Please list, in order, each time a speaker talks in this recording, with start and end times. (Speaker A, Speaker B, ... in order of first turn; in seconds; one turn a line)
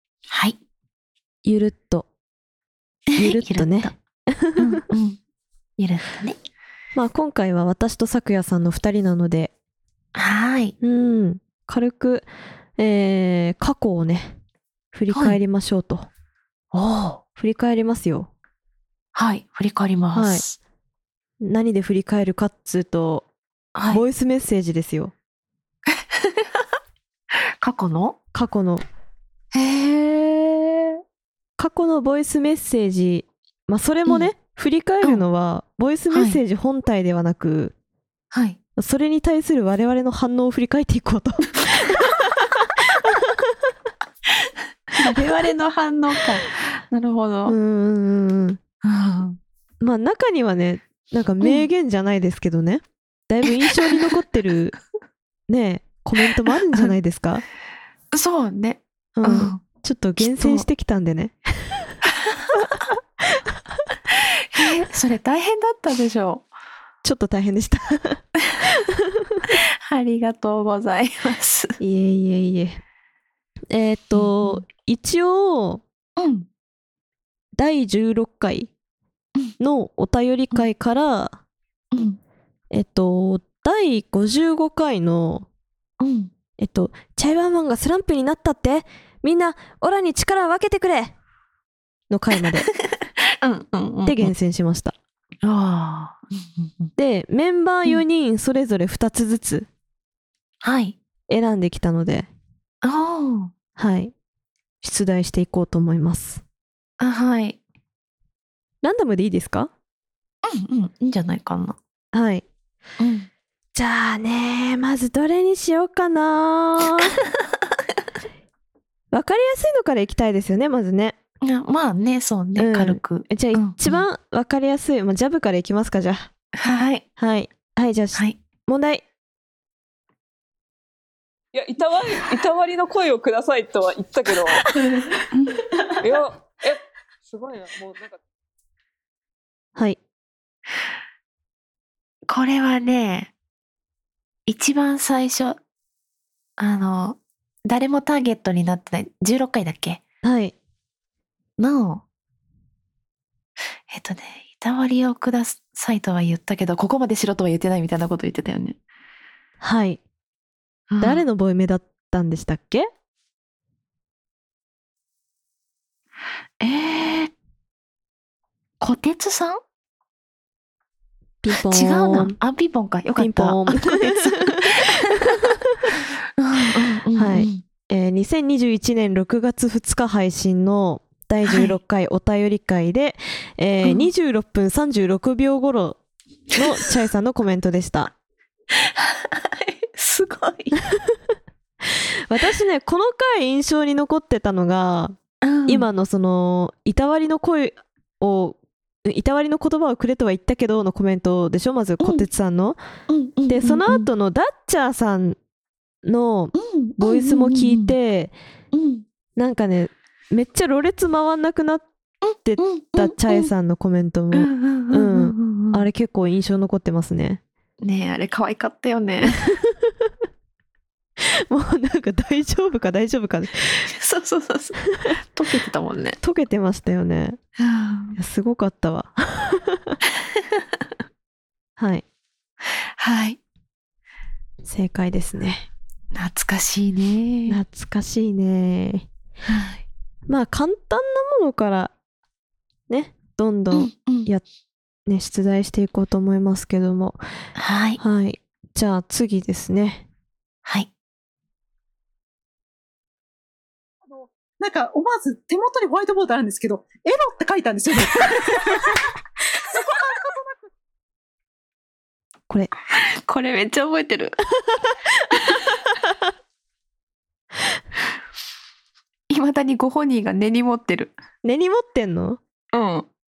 Speaker A: 0.3-0.6
Speaker B: 1.4-2.1
Speaker A: 3.1-3.9
Speaker B: 3.1-4.8
Speaker A: 4.6-5.2
Speaker A: 5.8-6.4
Speaker B: 6.9-9.5
Speaker A: 10.1-10.7
Speaker B: 10.8-14.4
Speaker B: 14.9-16.1
Speaker A: 15.1-15.4
Speaker A: 16.7-17.2
Speaker B: 17.4-18.3
Speaker A: 19.1-20.6
Speaker B: 20.1-20.4
Speaker B: 21.4-23.3
Speaker A: 23.7-24.0
Speaker B: 23.9-25.1
Speaker A: 26.1-26.5
Speaker A: 27.6-28.2
Speaker B: 28.3-28.8
Speaker A: 29.5-31.0
Speaker B: 31.6-37.7
Speaker A: 36.1-36.4
Speaker A: 38.3-38.6
Speaker B: 38.8-43.7
Speaker A: 44.9-47.5
Speaker B: 47.5-48.6
Speaker A: 48.8-49.4
Speaker B: 49.8-54.7
Speaker A: 51.4-51.7
Speaker B: 55.5-57.4
Speaker A: 58.1-59.6
Speaker B: 59.1-62.0
Speaker A: 60.2-60.7
Speaker A: 62.2-62.6
Speaker A: 64.5-66.5
Speaker B: 67.0-69.5
Speaker A: 69.5-71.8
Speaker B: 71.8-72.8
Speaker B: 73.7-75.8
Speaker A: 74.1-74.6
Speaker A: 76.2-76.5
Speaker B: 77.5-78.7
Speaker B: 79.6-81.4
Speaker A: 81.9-82.2
Speaker B: 82.7-85.5
Speaker A: 86.0-86.3
Speaker B: 86.6-91.1
Speaker B: 92.1-92.7
Speaker A: 93.4-94.3
Speaker B: 94.0-94.9
Speaker A: 95.4-96.9
Speaker B: 97.0-99.7
Speaker A: 100.6-101.0
Speaker B: 101.3-102.3
Speaker A: 102.8-103.5
Speaker B: 103.8-104.1
Speaker B: 104.8-106.4
Speaker A: 107.0-107.6
Speaker B: 108.8-109.7
Speaker A: 110.5-111.8
Speaker B: 112.1-112.4
Speaker A: 113.0-113.3
Speaker B: 113.7-117.1
Speaker B: 119.1-121.2
Speaker A: 121.4-124.0
Speaker B: 122.6-126.3
Speaker A: 126.6-127.0
Speaker B: 127.2-129.0
Speaker C: 131.5-134.7
Speaker A: 134.6-135.6
Speaker C: 136.0-138.2
Speaker A: 142.3-143.3
Speaker A: 144.5-145.6
Speaker A: 146.6-150.0
Speaker B: 150.2-150.5
Speaker A: 151.6-152.0
Speaker A: 153.9-158.8
Speaker B: 159.6-160.0
Speaker A: 160.9-161.2
Speaker B: 161.0-162.9
Speaker A: 166.6-167.3
Speaker A: 168.8-169.6
Speaker B: 171.4-172.4
Speaker A: 171.5-175.5
Speaker B: 173.2-175.9
Speaker A: 176.4-177.6
Speaker B: 177.1-186.0
Speaker A: 181.4-181.8
Speaker A: 183.8-184.1
Speaker B: 186.5-188.1
Speaker A: 188.8-190.8
Speaker B: 191.9-195.2
Speaker A: 195.4-195.9
Speaker B: 195.7-202.8
Speaker A: 203.1-204.1
Speaker B: 203.5-205.4
Speaker B: 206.0-208.3
Speaker A: 206.5-207.9
Speaker A: 208.7-209.0
Speaker B: 209.4-211.9
Speaker A: 212.2-213.5
Speaker B: 212.4-217.4
Speaker A: 214.3-215.8
Speaker A: 217.8-219.4
Speaker B: 219.3-220.1
Speaker B: 221.3-223.9
Speaker A: 223.9-226.2
Speaker B: 226.2-227.4
Speaker A: 227.6-228.2
Speaker B: 228.2-230.0
Speaker B: 231.8-232.0
Speaker A: 233.0-233.4
Speaker B: 234.6-235.7
Speaker A: 236.1-237.6
Speaker B: 237.5-239.1
Speaker A: 239.5-239.8
Speaker B: 240.3-241.9
Speaker B: 242.9-244.4
Speaker A: 243.7-244.3
Speaker B: 245.1-247.2
Speaker A: 247.6-248.0
Speaker B: 248.0-250.1
Speaker A: 250.6-250.9
Speaker D: 254.1-259.0
Speaker D: 259.6-260.7
Speaker A: 262.9-264.5
Speaker A: 265.3-265.6
Speaker A: 269.3-271.1
Speaker B: 271.4-272.4
Speaker A: 272.7-273.1